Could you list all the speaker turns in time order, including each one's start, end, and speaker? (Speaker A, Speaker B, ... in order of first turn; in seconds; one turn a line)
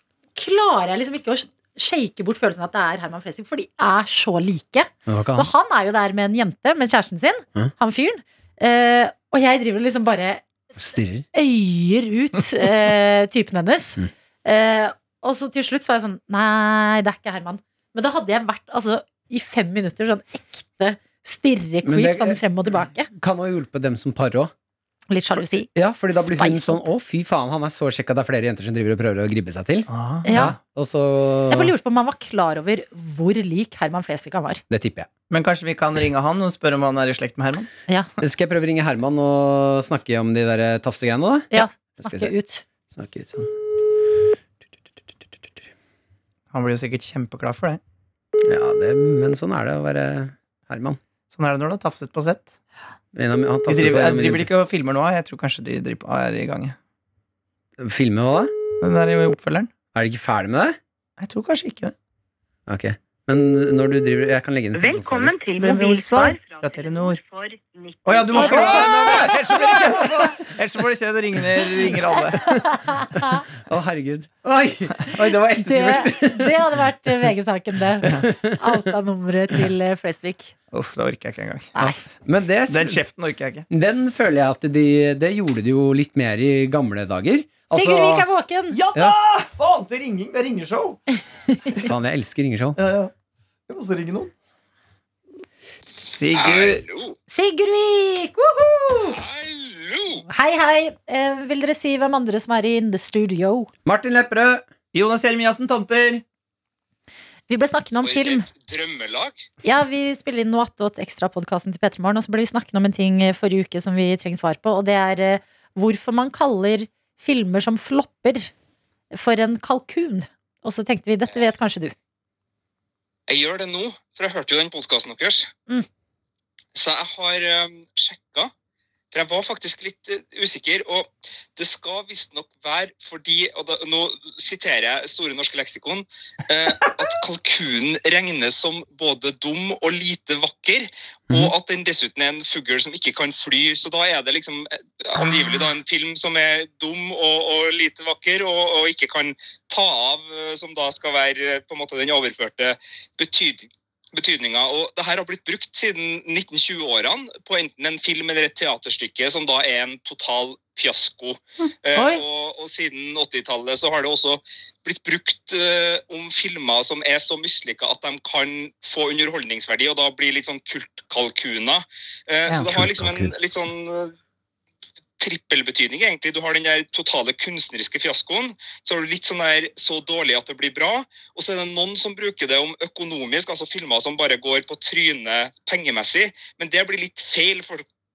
Speaker A: 0.3-10.4
Speaker B: 5.1-5.5
Speaker B: 10.8-11.3
Speaker A: 11.3-23.1
Speaker B: 21.8-22.4
Speaker B: 23.2-24.5
Speaker A: 25.1-26.8
Speaker B: 25.8-31.7
Speaker C: 29.9-30.4
Speaker A: 30.2-30.6
Speaker A: 31.5-34.6
Speaker B: 34.7-35.1
Speaker C: 35.3-37.7
Speaker B: 38.2-42.3
Speaker A: 41.5-42.6
Speaker B: 42.9-43.5
Speaker C: 46.5-47.8
Speaker B: 48.5-51.0
Speaker C: 51.3-52.5
Speaker B: 53.1-54.5
Speaker C: 53.7-56.8
Speaker B: 57.8-58.5
Speaker C: 58.8-59.7
Speaker B: 59.9-60.8
Speaker C: 61.2-61.9
Speaker B: 62.7-65.3
Speaker D: 64.7-70.0
Speaker C: 65.6-67.2
Speaker C: 68.0-72.7
Speaker B: 68.3-69.1
Speaker A: 68.5-68.8
Speaker A: 72.6-73.4
Speaker B: 73.3-76.8
Speaker A: 75.6-80.5
Speaker B: 78.0-78.7
Speaker C: 80.7-81.7
Speaker A: 81.8-82.0
Speaker B: 81.8-83.0
Speaker C: 82.7-83.7
Speaker B: 83.7-88.3
Speaker A: 87.7-88.8
Speaker C: 88.7-91.0
Speaker B: 91.8-92.8
Speaker C: 92.8-93.1
Speaker C: 93.7-94.3
Speaker C: 96.0-96.8
Speaker E: 96.4-97.1
Speaker A: 97.3-99.2
Speaker E: 99.2-100.2
Speaker A: 100.3-103.7
Speaker B: 103.8-104.7
Speaker C: 104.9-106.2
Speaker A: 107.5-108.5
Speaker E: 108.0-109.4
Speaker A: 109.6-118.5
Speaker A: 119.1-122.0
Speaker E: 123.3-125.5
Speaker E: 126.8-128.5
Speaker E: 129.1-174.1
Speaker A: 162.0-162.2
Speaker B: 172.5-173.3
Speaker E: 175.2-187.8